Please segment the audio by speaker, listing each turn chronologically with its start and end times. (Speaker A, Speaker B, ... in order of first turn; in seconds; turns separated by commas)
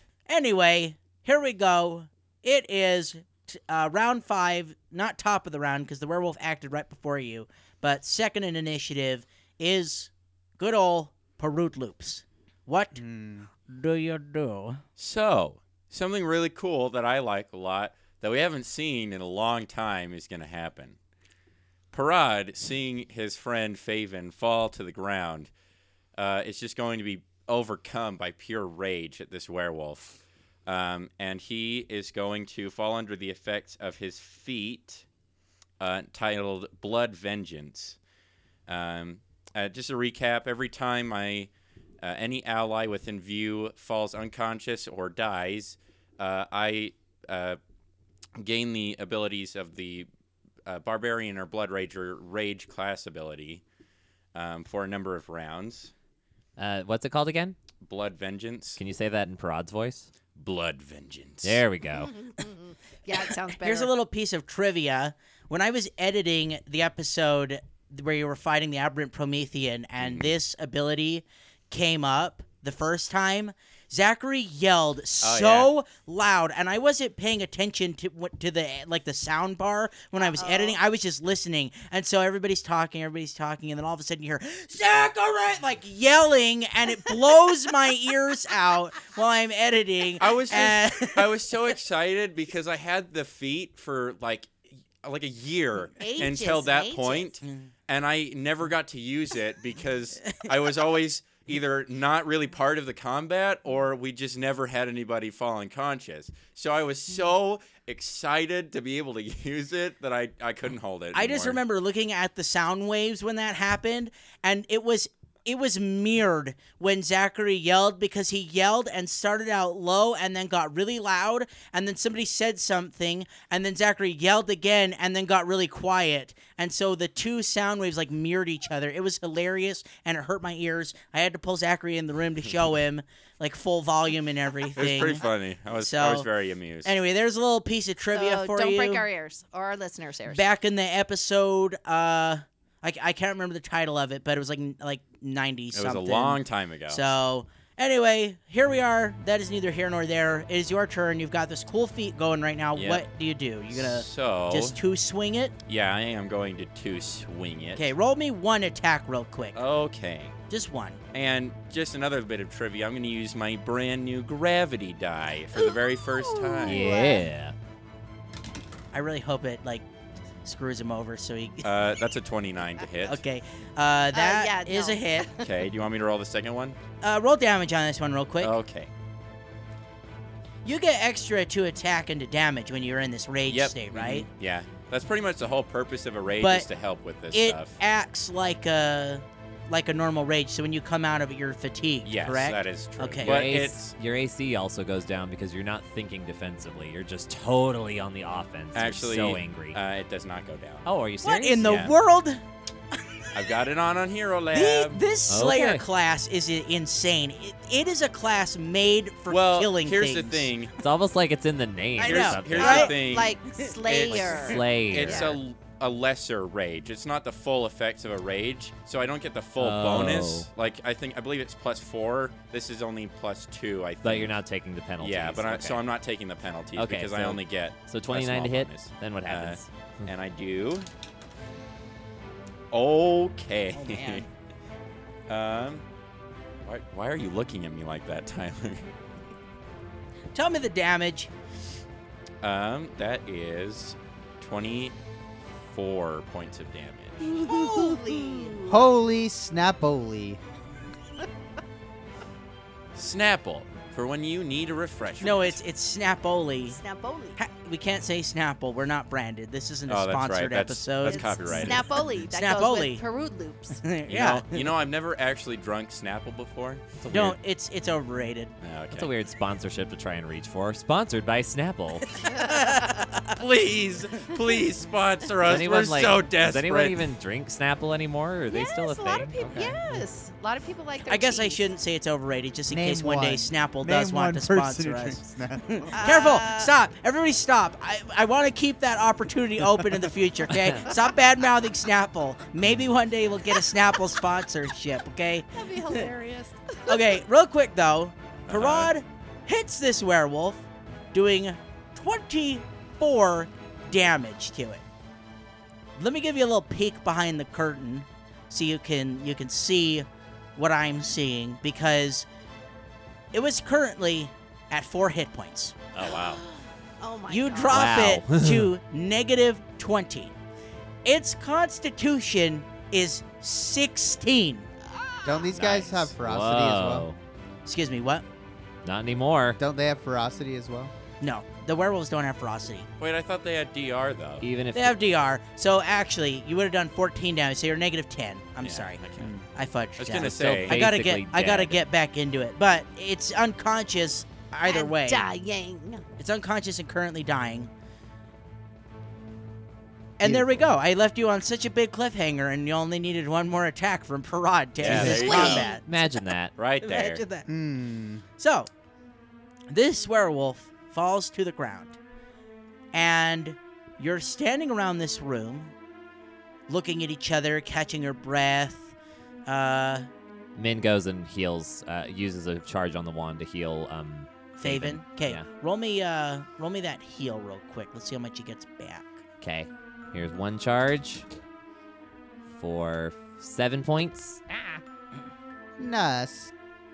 Speaker A: 0.3-13.0, Speaker B: 12.9-13.5, Speaker A: 13.7-14.8, Speaker C: 15.0-21.0, Speaker C: 21.9-25.5, Speaker C: 26.1-35.0, Speaker C: 35.8-38.0, Speaker C: 38.7-47.6, Speaker C: 48.4-50.1, Speaker C: 50.6-53.6, Speaker C: 54.3-55.9, Speaker D: 56.6-57.5, Speaker C: 57.8-58.8, Speaker D: 58.8-60.1, Speaker C: 60.3-61.6, Speaker D: 61.4-62.2, Speaker E: 62.1-63.9, Speaker A: 63.1-91.6, Speaker C: 70.0-70.3, Speaker C: 75.2-75.7, Speaker E: 80.2-80.8, Speaker C: 90.2-111.6, Speaker E: 96.0-97.3, Speaker A: 111.1-136.3, Speaker C: 134.8-137.0, Speaker A: 136.8-139.1, Speaker E: 138.1-140.4, Speaker A: 140.3-155.6, Speaker C: 145.7-147.1, Speaker C: 152.8-153.0, Speaker C: 153.7-154.8, Speaker C: 155.7-157.9, Speaker A: 157.7-159.6, Speaker C: 159.5-160.3, Speaker A: 160.5-161.0, Speaker C: 161.1-167.0, Speaker E: 165.5-167.3, Speaker D: 166.6-167.6, Speaker A: 168.9-169.9, Speaker A: 170.4-171.7, Speaker C: 171.6-173.2, Speaker A: 173.0-175.3, Speaker E: 174.1-175.4, Speaker C: 175.4-176.8, Speaker A: 177.0-178.5, Speaker C: 178.4-178.9, Speaker A: 180.6-184.3, Speaker C: 183.5-187.8, Speaker A: 186.4-186.7, Speaker A: 187.3-193.4, Speaker C: 192.0-193.9, Speaker D: 193.2-199.8, Speaker C: 198.7-200.9, Speaker D: 200.8-201.8, Speaker A: 201.2-202.4, Speaker C: 201.6-201.9, Speaker A: 203.1-203.5, Speaker C: 203.3-205.0, Speaker A: 204.5-210.5, Speaker D: 205.3-205.8, Speaker C: 209.3-210.7, Speaker D: 210.8-212.9, Speaker A: 212.0-214.1, Speaker C: 212.0-224.4, Speaker E: 212.5-215.3, Speaker D: 214.2-215.4, Speaker D: 219.6-220.5, Speaker D: 224.0-225.8, Speaker C: 225.0-230.9, Speaker D: 226.8-230.1, Speaker C: 232.7-234.2, Speaker A: 233.7-234.3, Speaker C: 235.3-235.8, Speaker C: 236.6-238.8, Speaker A: 240.3-241.3, Speaker C: 242.4-245.0, Speaker C: 245.7-247.3, Speaker E: 247.2-248.9, Speaker A: 247.3-248.6, Speaker B: 248.6-250.4, Speaker C: 252.9-255.6, Speaker A: 255.2-256.8, Speaker E: 256.7-257.4, Speaker A: 257.4-263.0, Speaker C: 259.9-262.0, Speaker E: 261.1-263.8, Speaker A: 263.7-264.7, Speaker C: 264.1-267.1, Speaker D: 267.0-267.4, Speaker A: 267.1-268.5, Speaker C: 268.6-269.1, Speaker D: 268.9-272.2, Speaker E: 272.2-272.7, Speaker A: 272.2-273.2, Speaker C: 273.2-277.0, Speaker D: 275.4-280.0, Speaker E: 278.5-281.7, Speaker A: 281.0-296.1, Speaker B: 282.7-285.9, Speaker E: 285.9-286.7, Speaker B: 289.6-290.1, Speaker B: 292.6-292.9, Speaker E: 295.5-297.2, Speaker A: 296.9-304.8, Speaker C: 298.5-298.9, Speaker A: 306.0-312.3, Speaker A: 313.3-315.8, Speaker C: 315.9-316.4, Speaker E: 316.0-317.9, Speaker A: 317.3-320.3, Speaker D: 317.7-318.7, Speaker A: 321.0-324.7, Speaker E: 324.9-325.5, Speaker B: 325.2-327.1, Speaker C: 325.6-325.9, Speaker D: 325.6-327.2, Speaker A: 327.6-328.2, Speaker D: 328.8-329.6, Speaker B: 329.6-330.9, Speaker A: 331.2-332.9, Speaker C: 333.0-334.5, Speaker D: 334.4-335.0, Speaker A: 334.7-339.0, Speaker C: 338.6-339.3, Speaker B: 339.2-339.5, Speaker A: 339.5-345.3, Speaker C: 340.0-340.9, Speaker D: 340.2-341.8, Speaker E: 344.6-346.0, Speaker A: 346.2-347.7, Speaker A: 350.2-355.9, Speaker B: 350.2-350.7, Speaker C: 354.8-355.7, Speaker D: 354.9-356.5, Speaker E: 354.9-355.8, Speaker C: 356.5-357.2, Speaker A: 356.8-357.5, Speaker B: 357.5-358.2, Speaker A: 358.4-358.7, Speaker A: 359.7-362.0, Speaker A: 362.9-365.7, Speaker A: 366.7-368.9, Speaker A: 369.4-370.1, Speaker D: 370.6-375.4, Speaker A: 374.6-379.2, Speaker D: 379.4-381.2, Speaker D: 382.5-384.8, Speaker B: 385.8-386.5